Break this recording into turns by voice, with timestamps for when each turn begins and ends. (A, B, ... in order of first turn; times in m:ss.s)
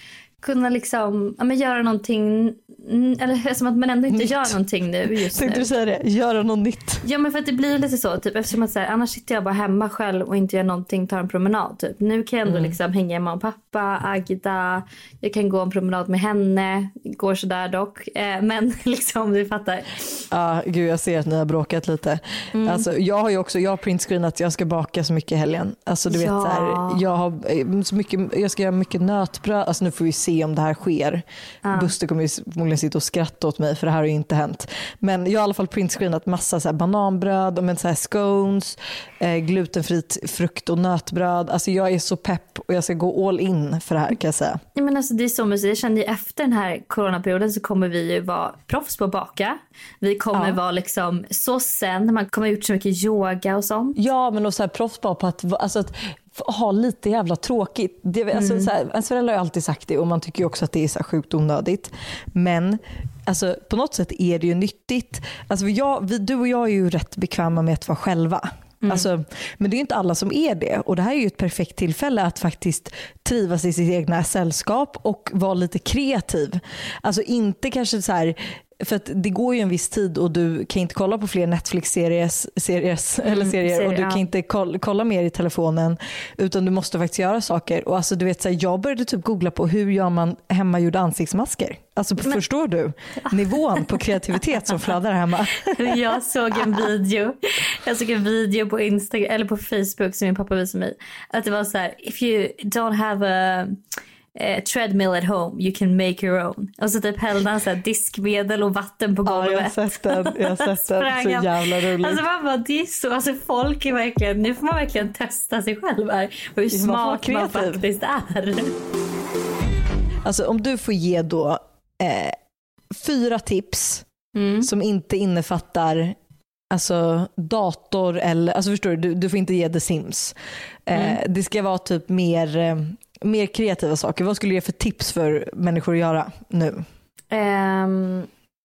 0:00.4-0:05.7 A
0:04.1-0:07.0 B
0:07.0-0:20.2 A
0:12.5-0:12.8 B
0:20.3-0:44.6 B
0:22.5-0:22.8 A
0:26.1-0:27.0 A
0:31.6-0:31.9 A
0:44.8-0:54.0 A
0:50.3-0:50.6 B
0:54.0-1:36.0 B
0:58.3-0:58.7 A
1:23.2-1:24.2 A
1:33.3-1:33.8 A
1:35.6-1:43.8 A
1:44.4-1:58.7 A
1:49.3-1:52.2 B
1:56.7-1:57.8 B
2:00.2-2:02.4 B
2:02.9-2:04.0 B
2:04.4-2:04.7 A
2:04.6-2:06.2 B
2:06.7-2:10.4 B
2:10.9-2:16.8 B
2:17.3-2:18.3 A